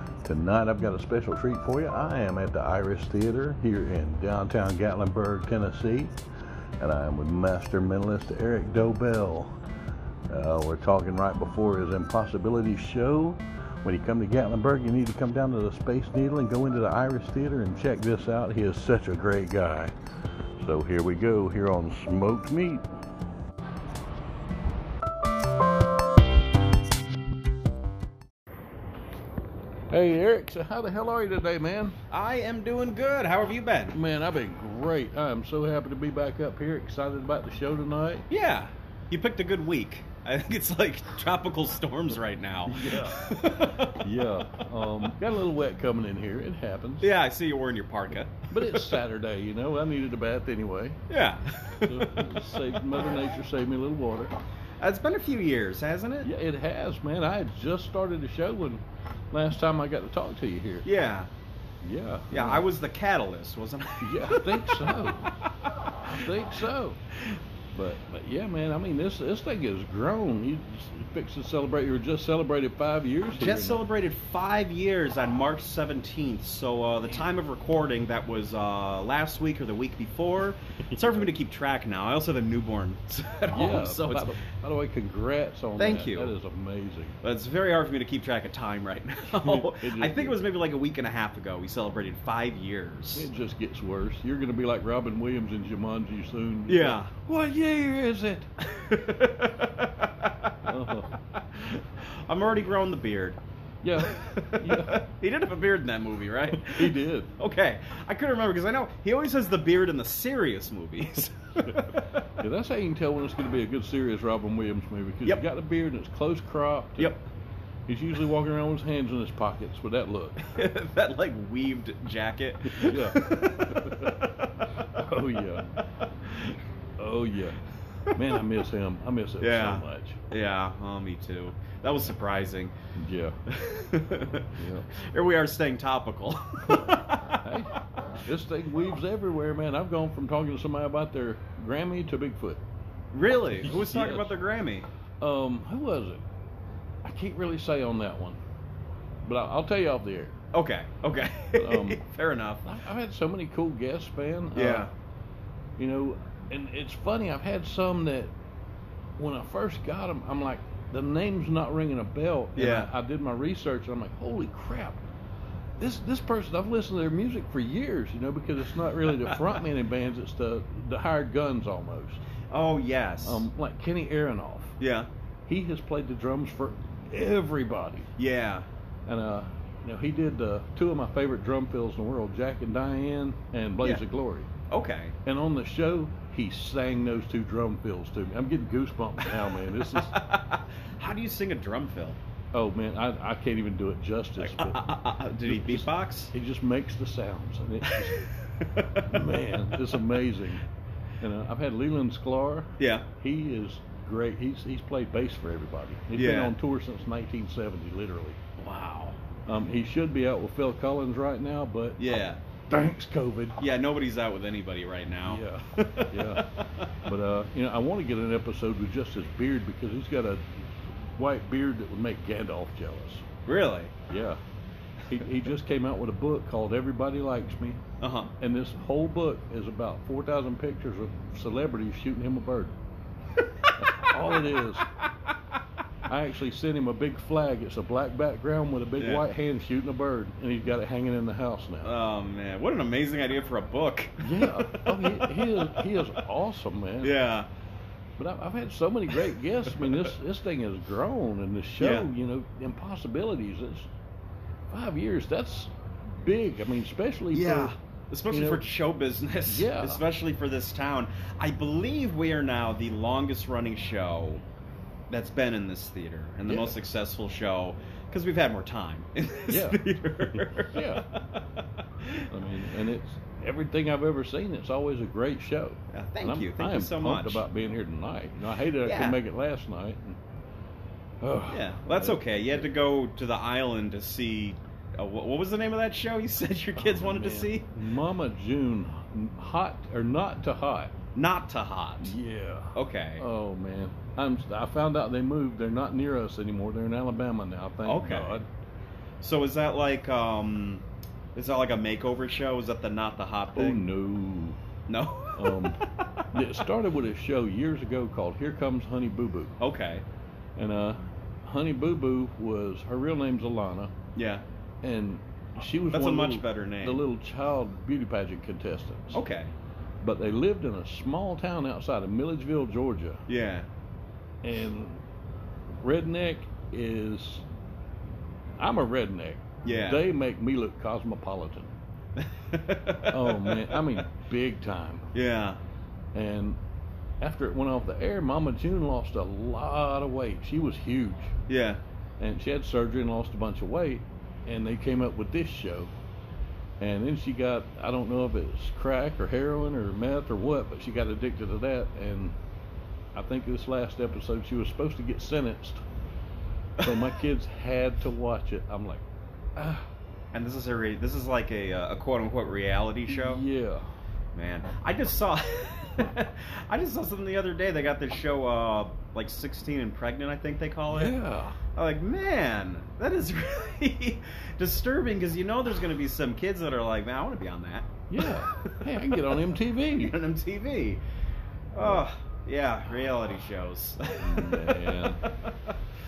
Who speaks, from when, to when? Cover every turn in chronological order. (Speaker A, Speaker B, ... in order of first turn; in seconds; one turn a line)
Speaker A: 0.2-6.1
Speaker A: 6.8-9.5
Speaker A: 10.3-19.9
Speaker A: 20.6-22.8
Speaker A: 29.9-32.0
Speaker B: 32.1-34.0
Speaker A: 33.9-38.3
Speaker B: 38.3-44.0
Speaker A: 42.7-47.1
Speaker B: 47.0-49.0
Speaker A: 48.5-51.0
Speaker B: 51.1-52.8
Speaker A: 51.8-54.3
Speaker B: 54.8-56.3
Speaker A: 56.2-60.9
Speaker B: 60.9-61.3
Speaker A: 61.8-62.6
Speaker B: 62.3-65.5
Speaker A: 64.0-65.4
Speaker A: 66.1-67.0
Speaker A: 67.7-73.8
Speaker B: 73.3-84.3
Speaker A: 80.8-81.3
Speaker A: 83.5-87.2
Speaker B: 85.8-86.3
Speaker B: 87.2-93.3
Speaker A: 89.3-90.4
Speaker A: 93.2-98.5
Speaker B: 96.7-97.1
Speaker B: 98.6-100.7
Speaker A: 100.7-101.1
Speaker B: 101.3-103.4
Speaker A: 103.8-105.0
Speaker B: 104.0-112.3
Speaker A: 106.6-107.3
Speaker A: 111.6-117.1
Speaker B: 117.0-117.2
Speaker A: 117.9-120.4
Speaker B: 120.4-124.7
Speaker A: 122.7-125.8
Speaker B: 125.8-126.6
Speaker A: 126.5-130.2
Speaker B: 129.4-132.7
Speaker A: 133.0-133.4
Speaker B: 133.5-137.4
Speaker A: 134.6-134.9
Speaker A: 136.6-142.6
Speaker B: 143.1-144.9
Speaker A: 143.7-144.3
Speaker A: 145.2-146.2
Speaker A: 147.1-148.4
Speaker A: 149.2-150.4
Speaker B: 150.5-152.7
Speaker A: 151.6-152.0
Speaker A: 152.7-154.9
Speaker B: 154.6-154.9
Speaker A: 155.8-158.3
Speaker A: 159.2-165.0
Speaker B: 162.6-162.9
Speaker A: 165.8-172.2
Speaker B: 172.5-173.5
Speaker A: 173.2-174.8
Speaker B: 174.8-175.1
Speaker A: 175.5-178.1
Speaker B: 178.2-178.7
Speaker A: 179.1-184.5
Speaker B: 184.7-185.2
Speaker A: 185.2-190.2
Speaker B: 189.3-192.2
Speaker A: 192.5-194.9
Speaker B: 194.4-196.3
Speaker A: 195.4-198.3
Speaker B: 197.8-199.3
Speaker A: 199.0-200.7
Speaker A: 201.2-208.4
Speaker B: 202.8-203.1
Speaker B: 206.2-206.5
Speaker B: 208.6-209.2
Speaker A: 209.5-212.0
Speaker B: 212.0-212.4
Speaker A: 212.7-213.6
Speaker B: 213.6-216.9
Speaker A: 215.3-223.2
Speaker B: 223.5-223.9
Speaker A: 224.1-224.4
Speaker A: 225.1-227.8
Speaker B: 228.0-228.3
Speaker A: 228.4-232.8
Speaker B: 233.4-234.2
Speaker A: 233.8-234.9
Speaker A: 236.1-241.9
Speaker B: 239.0-239.3
Speaker B: 241.8-246.2
Speaker A: 244.2-247.2
Speaker B: 247.0-247.5
Speaker A: 248.2-253.9
Speaker B: 251.8-252.1
Speaker A: 254.7-257.7
Speaker B: 257.3-264.4
Speaker A: 258.3-258.6
Speaker A: 259.5-260.0
Speaker B: 265.1-272.3
Speaker A: 266.5-266.8
Speaker A: 269.5-271.1
Speaker A: 272.3-280.2
Speaker B: 275.9-277.4
Speaker B: 278.8-279.2
Speaker A: 281.2-282.7
Speaker B: 281.5-287.7
Speaker A: 286.8-290.9
Speaker B: 291.1-292.1
Speaker A: 292.0-298.5
Speaker B: 292.8-293.2
Speaker B: 297.8-298.4
Speaker B: 299.2-303.8
Speaker A: 303.6-304.6
Speaker B: 304.9-306.6
Speaker A: 305.4-309.5
Speaker B: 309.6-310.1
Speaker A: 310.6-313.9
Speaker B: 314.2-314.4
Speaker A: 314.8-319.2
Speaker B: 315.9-317.0
Speaker B: 319.1-319.5
Speaker A: 320.0-323.2
Speaker B: 323.3-323.7
Speaker A: 324.4-325.0
Speaker A: 325.7-327.4
Speaker A: 328.6-331.8
Speaker B: 329.6-330.0
Speaker B: 332.2-333.8
Speaker A: 333.1-335.1
Speaker B: 335.1-335.6
Speaker A: 336.1-336.6
Speaker A: 337.2-341.3
Speaker B: 341.5-341.8
Speaker A: 342.2-345.9
Speaker A: 346.8-352.4
Speaker A: 353.1-355.8
Speaker B: 356.8-357.1
Speaker A: 356.8-359.0
Speaker A: 359.6-359.9
Speaker B: 360.3-363.4
Speaker A: 363.1-363.9
Speaker B: 364.3-371.2
Speaker A: 370.9-371.6
Speaker B: 371.7-381.0
Speaker A: 378.1-380.2
Speaker B: 381.7-385.7
Speaker A: 384.2-385.2